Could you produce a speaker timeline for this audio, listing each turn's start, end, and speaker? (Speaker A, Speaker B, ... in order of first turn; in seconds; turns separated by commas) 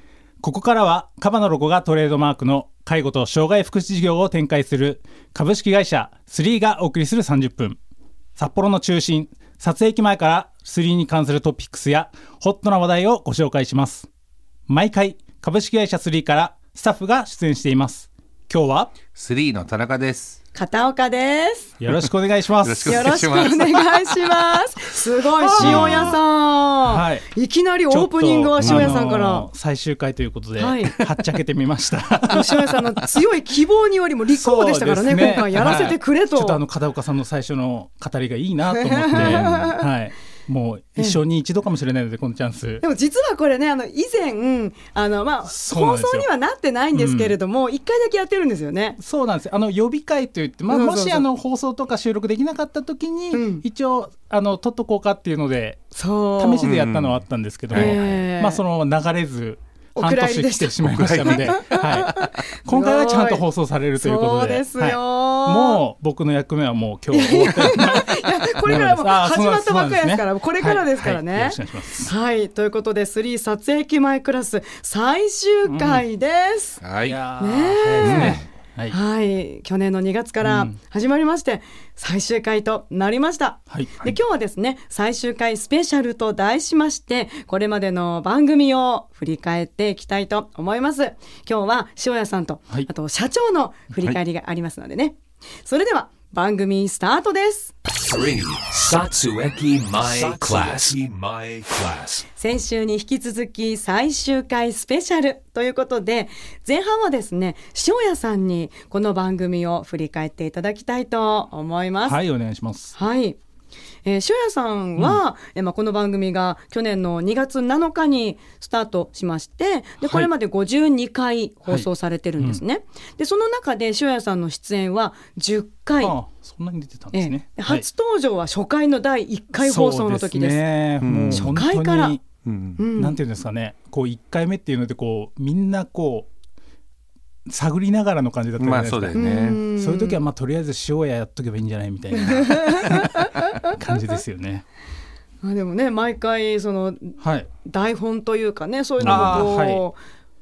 Speaker A: 0.4-7.8, Speaker A: 8.4-14.1, Speaker A: 14.7-18.9, Speaker B: 19.1-20.4, Speaker C: 20.5-21.7, Speaker A: 21.8-23.5, Speaker B: 22.6-24.1, Speaker C: 22.9-29.5, Speaker A: 25.4-26.2, Speaker B: 25.6-26.2, Speaker A: 26.8-27.3, Speaker A: 27.9-32.8, Speaker B: 28.6-28.9, Speaker C: 30.6-31.0, Speaker C: 32.3-36.6, Speaker A: 34.3-42.8, Speaker B: 35.6-35.9, Speaker C: 38.7-39.8, Speaker B: 39.1-39.7, Speaker C: 42.8-49.0, Speaker A: 45.4-46.3, Speaker A: 46.9-47.4, Speaker A: 49.0-55.8, Speaker C: 50.7-51.2, Speaker C: 53.3-53.6, Speaker C: 55.9-56.7, Speaker A: 56.4-72.1, Speaker B: 56.6-58.1, Speaker C: 57.7-58.6, Speaker C: 60.0-63.4, Speaker B: 60.8-62.4, Speaker C: 64.0-65.8, Speaker C: 67.1-76.8, Speaker A: 75.7-76.0, Speaker B: 76.8-77.2, Speaker A: 77.0-79.0, Speaker C: 77.4-97.7, Speaker B: 78.0-78.4, Speaker A: 80.4-80.7, Speaker D: 97.8-102.2, Speaker A: 100.1-100.7, Speaker C: 102.3-112.2, Speaker A: 112.0-113.0, Speaker C: 113.0-113.4, Speaker C: 114.0-126.2, Speaker A: 120.0-120.3, Speaker A: 126.0-127.8, Speaker C: 127.1-130.7, Speaker A: 129.5-132.2, Speaker B: 131.0-131.6, Speaker C: 131.3-132.2, Speaker B: 132.4-132.8, Speaker C: 132.8-133.2, Speaker A: 133.0-136.3, Speaker A: 137.5-144.6, Speaker B: 138.6-139.6, Speaker C: 139.1-140.2, Speaker C: 142.2-144.0, Speaker C: 145.4-150.0, Speaker A: 147.2-147.5, Speaker B: 149.0-149.6, Speaker A: 149.0-149.8